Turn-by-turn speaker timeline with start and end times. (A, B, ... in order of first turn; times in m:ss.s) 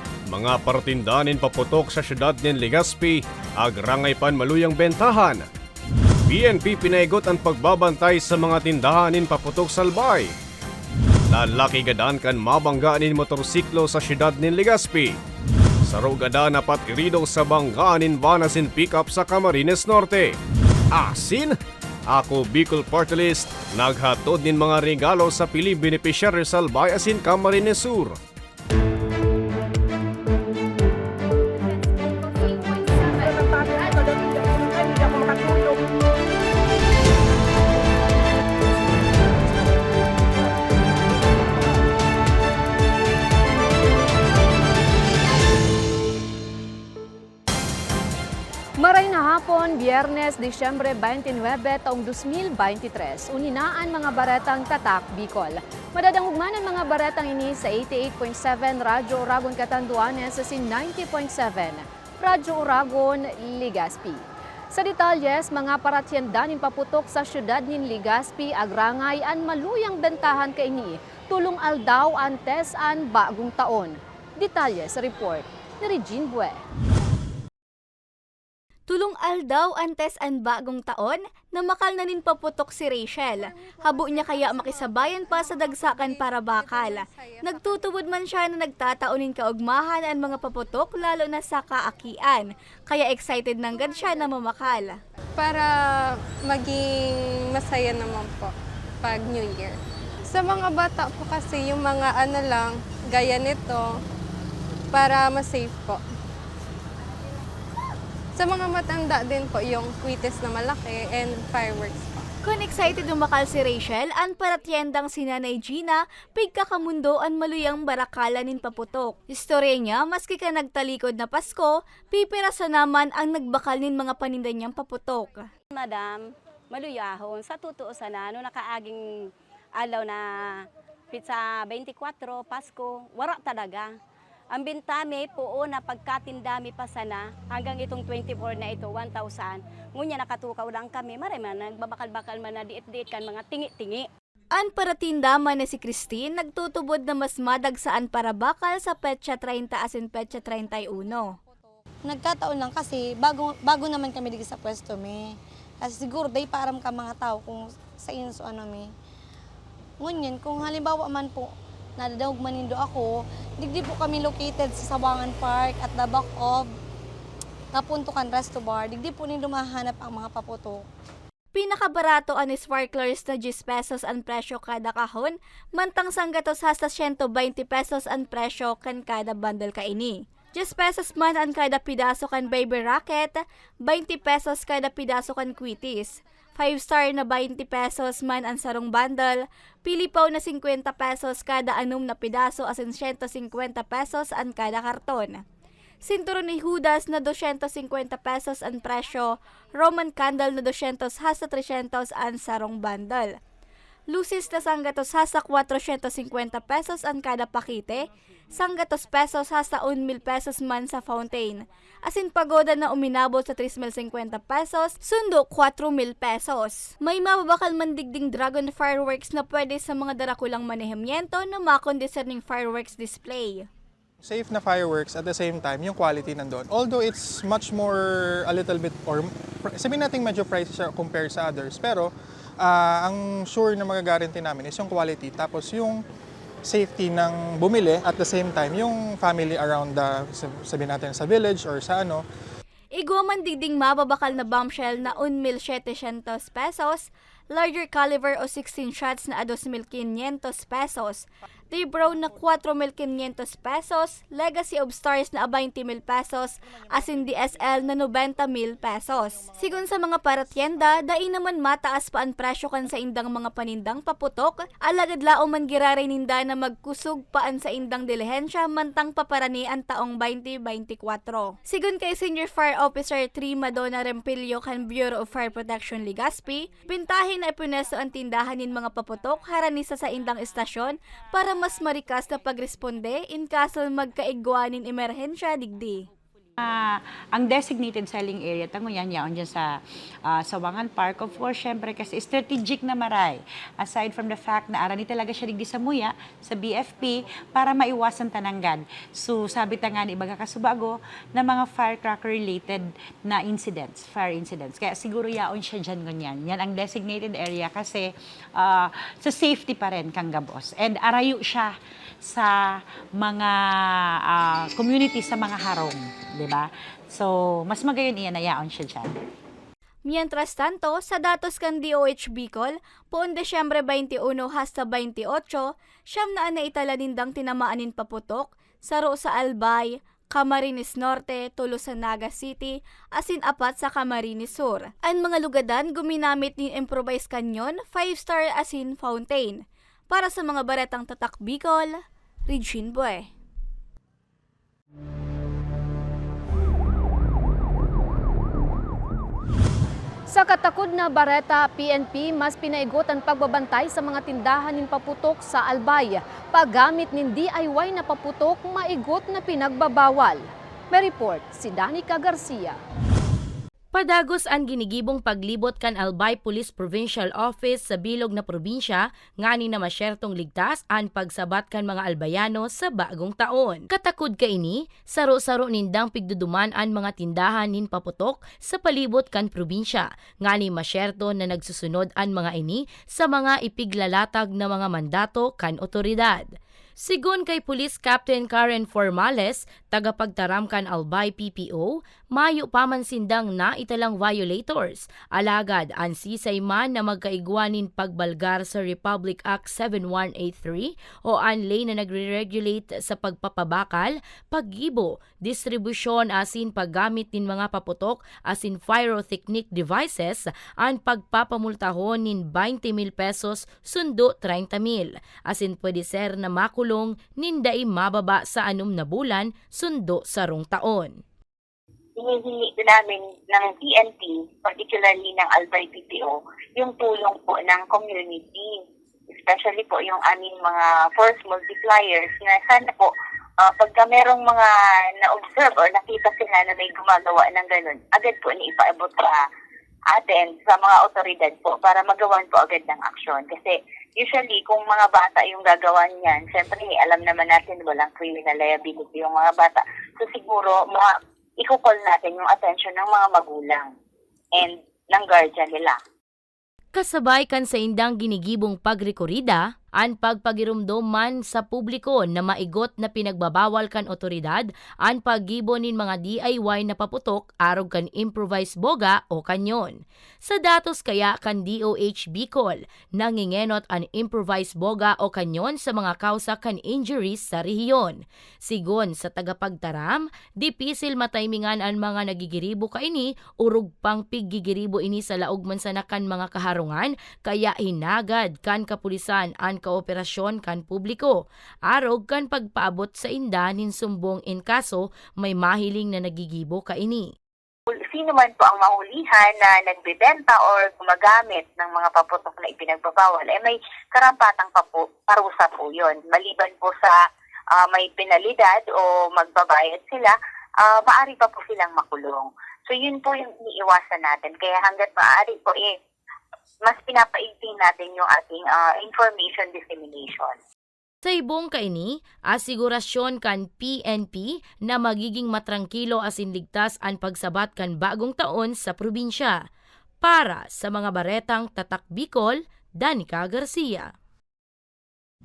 0:00.3-0:05.4 A
0:06.3-0:10.3 A
0:11.3-0:15.1 A
0:15.9-0:20.3 A
0:20.9-0:21.6 A
0:22.1-0:28.2 A
0:48.8-1:16.6 B
1:18.9-1:35.0 C
1:23.9-1:24.8 D
1:25.8-1:27.5 D
1:35.4-1:39.8 D
1:40.3-1:43.9 D
1:44.9-1:46.0 D
1:48.4-1:52.2 D
1:52.4-2:05.5 C
2:05.8-2:09.0 E
2:09.8-2:13.9 E
2:14.5-2:24.1 E
2:24.5-2:31.4 C
2:32.0-2:38.9 F
2:40.0-2:46.7 F
2:47.7-2:50.8 F
2:51.5-3:15.4 C
3:16.0-3:23.3 C
3:24.1-3:43.7 C
3:44.2-3:56.0 G
3:56.7-4:02.2 G
4:03.0-4:46.1 C
4:46.6-5:19.1 H
5:20.1-5:43.3 C
5:50.3-6:02.8 B
6:03.9-7:01.2 I
7:02.2-7:08.8 J
7:09.4-7:13.1 J
7:13.6-7:14.7 J
7:15.2-7:19.4 J
7:20.1-7:33.9 J
7:34.6-7:36.0 J
7:37.0-8:17.3 I
8:17.9-8:27.2 J
8:27.8-8:36.0 J
8:36.8-8:40.6 J
8:41.2-8:49.6 I
8:50.2-8:54.1 I